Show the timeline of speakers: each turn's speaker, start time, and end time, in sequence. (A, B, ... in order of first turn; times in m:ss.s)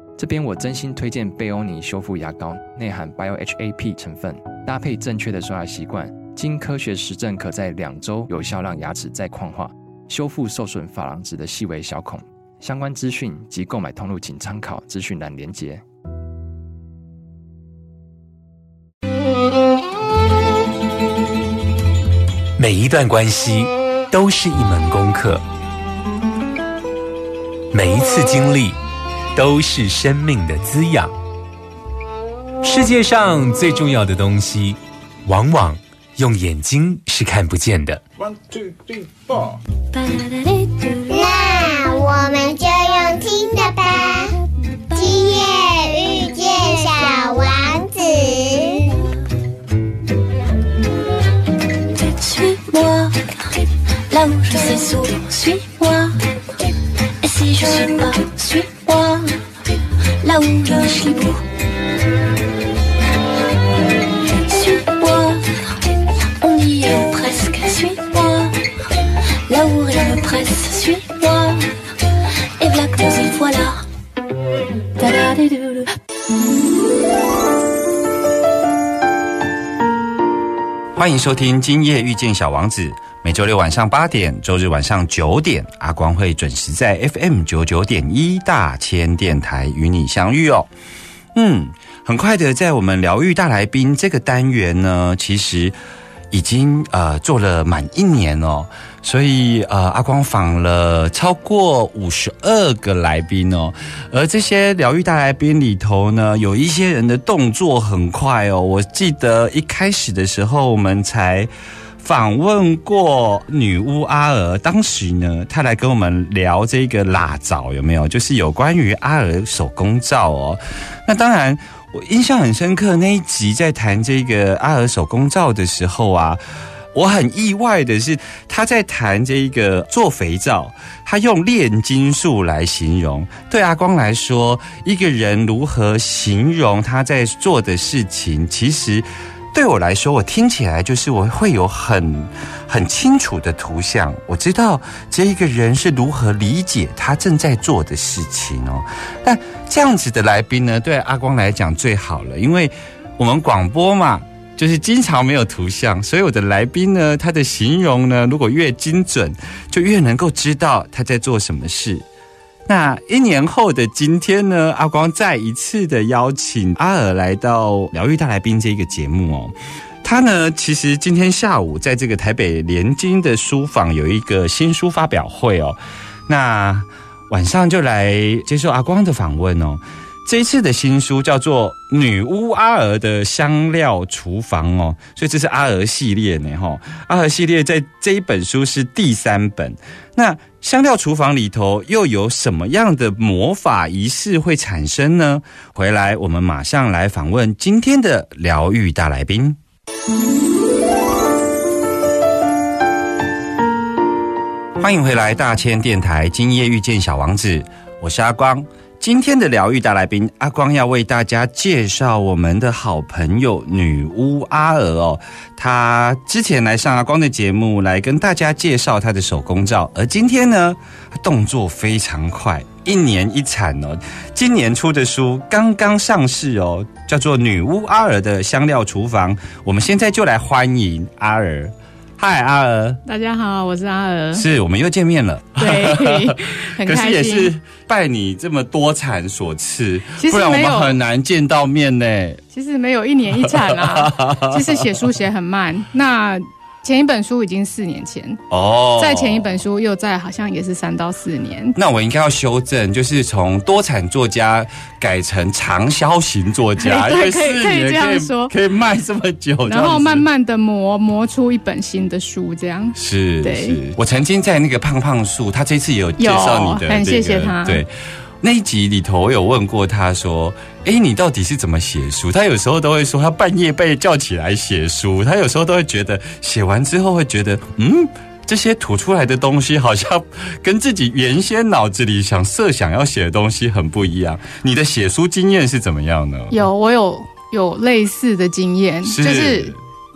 0:00.2-0:15.8 A
0:22.6-0:25.4 B
0:27.7-0:28.8 B
0:29.3-0:31.1 B
0:32.6-0:38.0 B
0:39.9-0:41.1 C
0:41.1-0:44.3 D
0:44.9-0:48.9 D
0:51.9-0:56.2 C
0:57.2-0:59.4 C
1:00.2-1:01.4 C
1:04.3-1:08.9 C
1:09.5-1:11.8 C
1:12.6-1:13.8 C
1:15.0-1:16.0 C
1:20.9-1:30.7 E
1:31.3-1:35.8 E
1:36.3-1:51.5 E
1:52.0-2:06.4 E
2:06.9-2:42.0 E
2:42.7-3:19.6 E
3:24.8-3:53.0 E
3:53.0-3:54.4 F
3:54.3-4:02.4 E
3:55.6-3:57.5 F
4:00.2-4:01.0 F
4:02.5-4:08.4 F
4:03.4-4:05.0 E
4:08.5-4:09.5 E
4:09.0-4:11.8 F
4:11.8-4:20.2 E
4:16.8-4:18.5 F
4:19.7-4:23.8 F
4:23.0-4:27.9 E
4:26.2-4:27.8 F
4:28.4-4:46.6 E
4:46.5-4:49.7 F
4:49.0-4:49.8 E